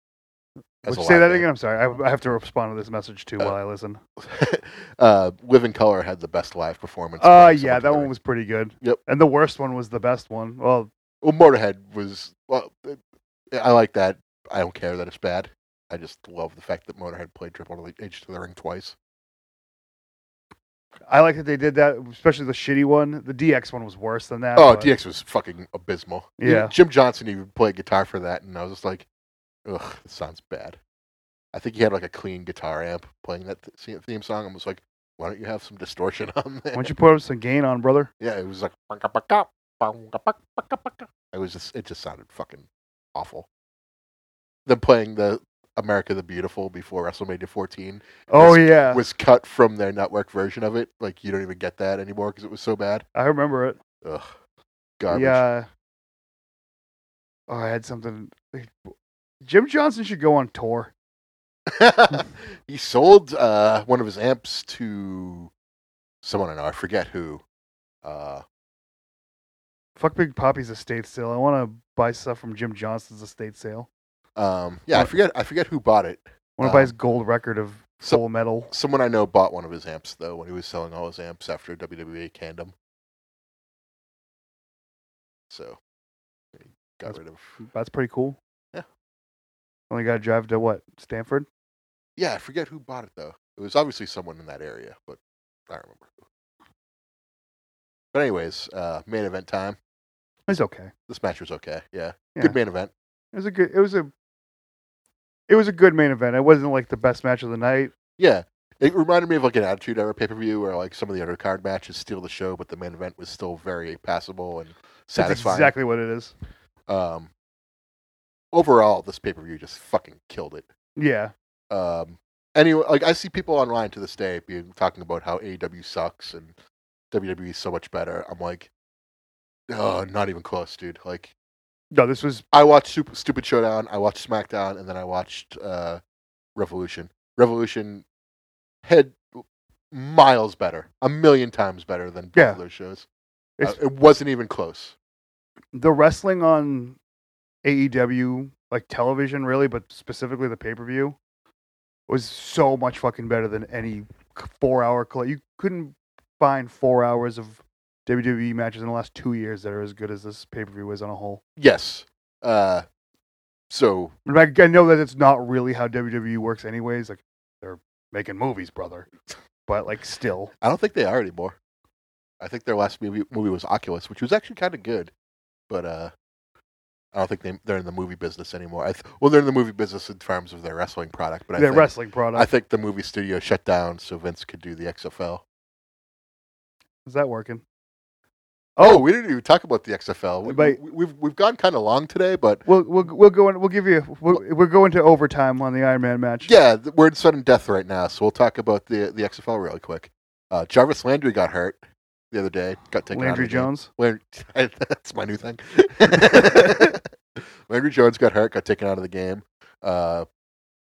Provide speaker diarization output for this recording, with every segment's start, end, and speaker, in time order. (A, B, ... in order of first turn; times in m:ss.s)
0:00.8-0:01.4 A
0:00.8-0:04.0 B
0:04.2-0:08.1 A
0:07.2-0:10.9 B
0:11.2-0:19.0 A
0:21.1-0:24.9 B
0:24.6-0:29.1 A
0:26.4-0:26.7 B
0:29.6-0:30.8 A
0:31.5-0:36.9 A
0:36.7-0:38.1 B
0:38.2-0:43.5 A
0:44.6-0:53.0 A
0:48.3-0:49.0 B
0:53.1-0:53.8 B
0:54.0-0:54.3 A
0:55.0-0:55.4 A
0:55.1-0:55.7 B
0:57.5-1:00.9 B
1:01.7-1:05.5 A
1:06.2-1:07.4 A
1:08.0-1:08.4 A
1:10.0-1:13.9 B
1:14.4-1:16.9 A
1:16.6-1:18.7 B
1:18.0-1:22.7 A
1:25.5-1:25.8 A
1:26.5-1:27.6 A
1:27.0-1:28.4 B
1:29.9-1:31.5 B
1:32.2-1:36.2 A
1:38.1-1:39.8 A
1:40.5-1:40.9 B
1:41.1-1:42.9 A
1:43.3-1:44.1 B
1:45.5-1:47.9 B
1:48.2-1:55.7 A
1:55.2-1:56.3 B
1:56.9-1:57.3 A
1:58.5-2:00.7 A
2:01.0-2:01.3 B
2:01.7-2:06.5 A
2:07.1-2:08.7 A
2:09.7-2:11.3 A
2:11.9-2:12.4 B
2:12.5-2:16.0 A
2:16.6-2:18.0 A
2:18.8-2:23.0 A
2:22.3-2:22.6 B
2:23.6-2:25.0 A
2:25.7-2:27.0 B
2:27.6-2:31.2 B
2:32.1-2:41.4 B
2:41.6-2:42.8 A
2:43.7-2:44.1 A
2:44.2-2:49.1 B
2:49.7-2:50.5 B
2:50.6-2:51.6 A
2:52.4-2:55.1 A
2:55.7-2:56.1 A
2:57.1-3:05.4 A
3:01.6-3:02.5 B
3:07.0-3:07.6 B
3:08.8-3:09.0 B
3:08.8-3:12.6 A
3:10.4-3:10.8 B
3:12.6-3:16.5 B
3:16.4-3:21.8 A
3:22.3-3:30.2 A
3:23.1-3:23.9 B